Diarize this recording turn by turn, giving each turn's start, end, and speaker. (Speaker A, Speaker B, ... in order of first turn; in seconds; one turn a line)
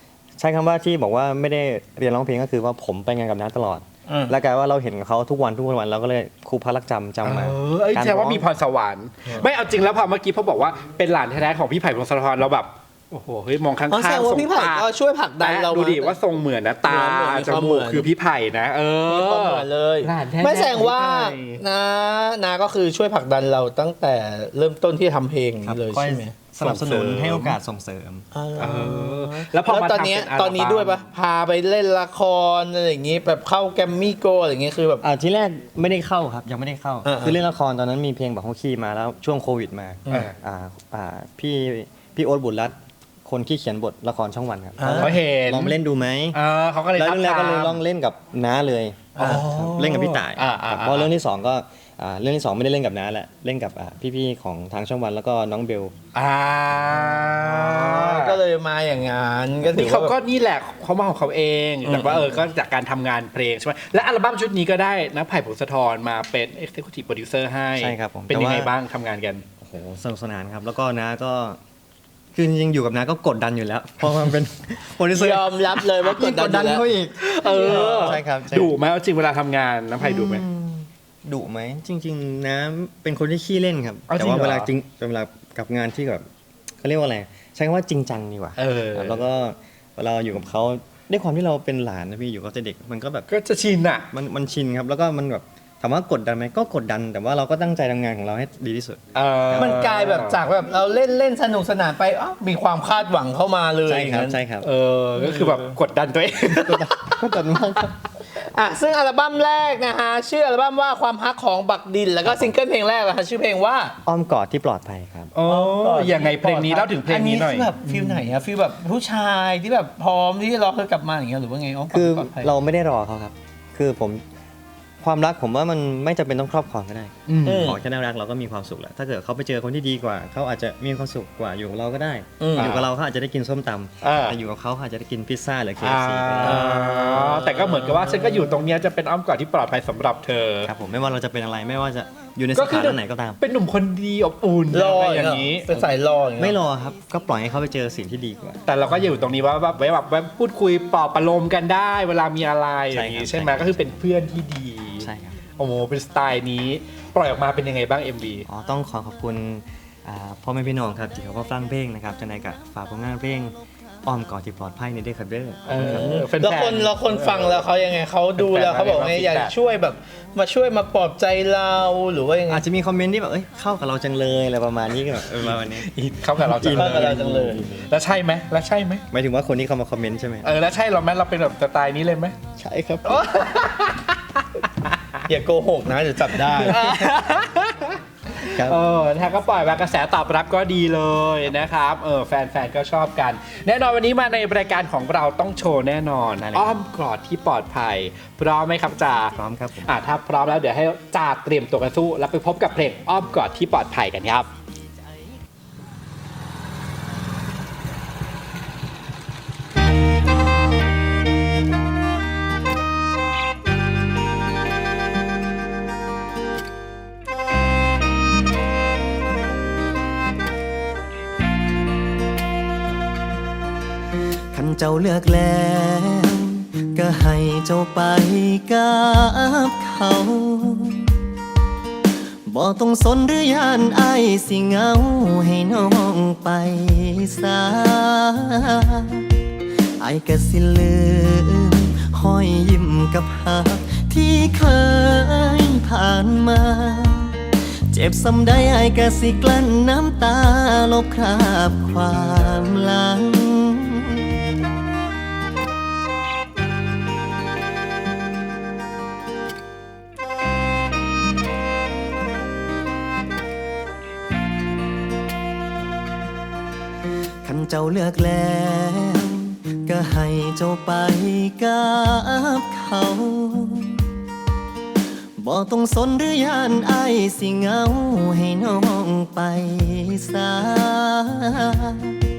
Speaker A: 0.4-8.5
Speaker B: 4.1-4.4
Speaker C: 7.2-14.9
Speaker B: 13.9-16.2
Speaker C: 15.4-21.6
Speaker B: 16.9-18.1
Speaker B: 19.1-26.4
Speaker A: 25.6-28.2
Speaker C: 26.6-27.6
Speaker B: 28.3-35.0
Speaker C: 28.6-31.1
Speaker A: 35.0-42.8
Speaker B: 37.0-37.4
Speaker C: 40.1-40.4
Speaker A: 43.2-46.4
Speaker B: 44.8-45.2
Speaker C: 44.9-45.8
Speaker C: 46.3-47.8
Speaker A: 46.9-55.9
Speaker B: 49.1-49.5
Speaker C: 49.2-51.1
Speaker C: 56.1-58.4
Speaker B: 57.2-60.2
Speaker C: 59.6-69.4
Speaker B: 61.9-62.4
Speaker A: 67.8-68.7
Speaker A: 69.6-71.6
Speaker A: 72.3-78.7
Speaker B: 75.1-76.8
Speaker C: 77.2-80.5
Speaker B: 77.4-78.2
Speaker A: 80.0-86.2
Speaker C: 84.1-84.7
Speaker A: 86.8-93.3
Speaker C: 88.6-89.2
Speaker C: 93.3-94.1
Speaker A: 94.1-99.8
Speaker C: 99.1-100.4
Speaker B: 99.5-104.4
Speaker A: 103.9-104.7
Speaker C: 104.6-106.9
Speaker A: 106.6-107.9
Speaker B: 108.4-113.9
Speaker A: 114.0-115.3
Speaker C: 115.3-117.8
Speaker B: 115.4-122.5
Speaker A: 117.9-118.2
Speaker A: 121.9-124.2
Speaker A: 125.0-137.2
Speaker C: 127.3-127.7
Speaker B: 127.4-127.8
Speaker B: 132.4-132.7
Speaker C: 132.6-132.8
Speaker C: 134.0-134.4
Speaker C: 135.8-140.7
Speaker B: 136.4-138.5
Speaker A: 140.6-143.4
Speaker C: 142.6-145.9
Speaker B: 144.7-146.6
Speaker A: 146.4-149.3
Speaker C: 148.7-158.5
Speaker A: 152.9-154.0
Speaker A: 155.0-155.4
Speaker A: 158.5-163.5
Speaker A: 164.0-166.2
Speaker C: 165.7-167.7
Speaker B: 165.7-172.6
Speaker C: 168.4-169.5
Speaker A: 172.5-175.9
Speaker C: 175.3-179.0
Speaker A: 176.4-177.9
Speaker B: 176.7-177.7
Speaker A: 179.1-180.5
Speaker C: 180.4-182.3
Speaker A: 182.6-183.3
Speaker C: 183.0-185.2
Speaker B: 185.3-187.2
Speaker C: 186.3-199.3
Speaker A: 188.4-188.8
Speaker A: 199.3-199.9
Speaker C: 199.9-204.5
Speaker A: 224.5-231.1
Speaker A: 232.5-239.3
Speaker A: 240.0-254.3
Speaker A: 267.4-274.1
Speaker A: 275.4-282.2